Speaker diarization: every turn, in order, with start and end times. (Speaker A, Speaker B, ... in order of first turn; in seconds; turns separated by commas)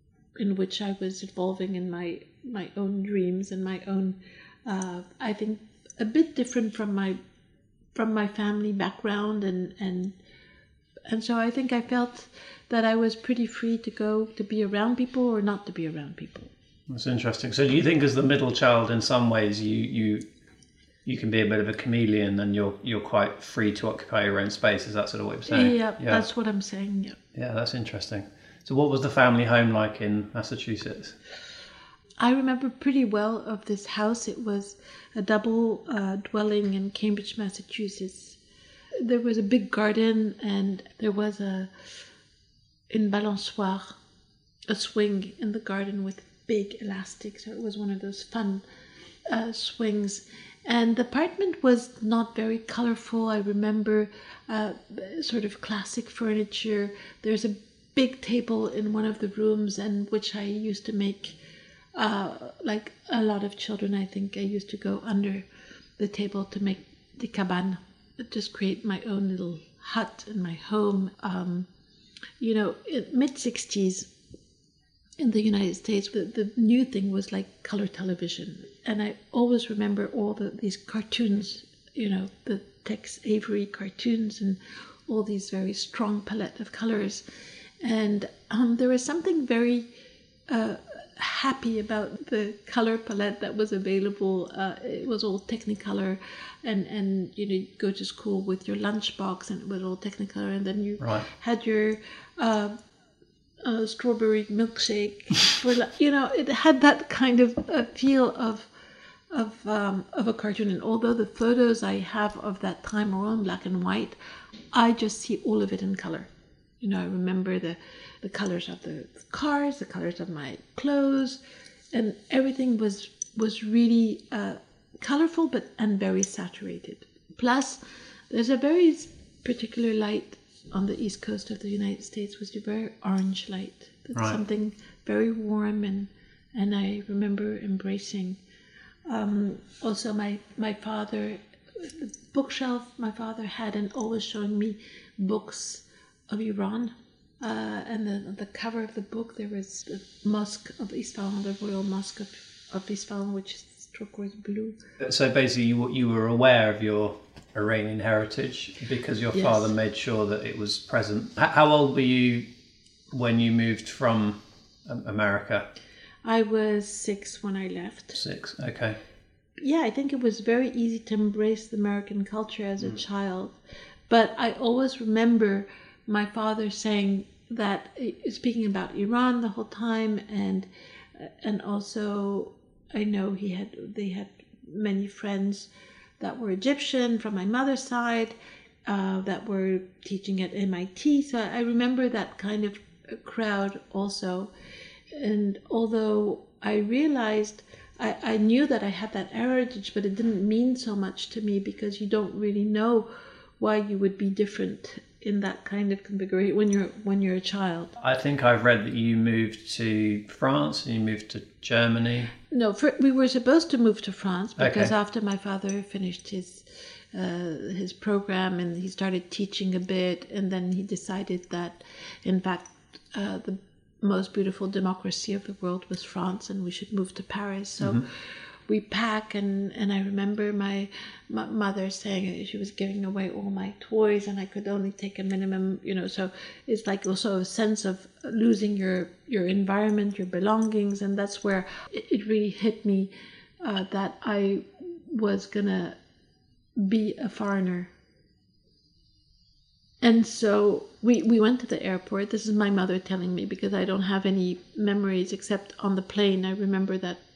Speaker A: 0.3-7.2, Speaker A: 7.9-10.2, Speaker A: 11.1-16.5, Speaker B: 16.9-20.2, Speaker B: 21.0-26.2, Speaker A: 25.5-27.2, Speaker B: 27.3-31.1, Speaker A: 32.2-38.4, Speaker A: 39.0-41.7, Speaker A: 42.9-44.0, Speaker A: 44.7-48.6, Speaker A: 49.3-61.4, Speaker A: 62.0-65.5, Speaker A: 66.0-71.7, Speaker A: 72.4-74.1, Speaker A: 75.2-87.2, Speaker A: 87.8-89.9, Speaker A: 90.5-102.8, Speaker A: 103.6-108.7, Speaker A: 109.3-114.2, Speaker A: 114.7-116.3, Speaker A: 116.8-121.4, Speaker A: 121.9-138.4, Speaker A: 139.1-154.8, Speaker B: 155.0-162.5, Speaker A: 159.3-159.6, Speaker B: 163.1-165.7, Speaker A: 166.2-168.2, Speaker B: 168.2-169.0, Speaker A: 169.6-173.6, Speaker A: 174.1-185.7, Speaker A: 186.2-188.3, Speaker A: 188.9-194.5, Speaker A: 195.1-207.9, Speaker B: 208.0-212.3, Speaker A: 212.5-246.0, Speaker B: 214.6-214.9, Speaker B: 227.8-228.0, Speaker A: 246.8-247.9, Speaker A: 250.0-257.2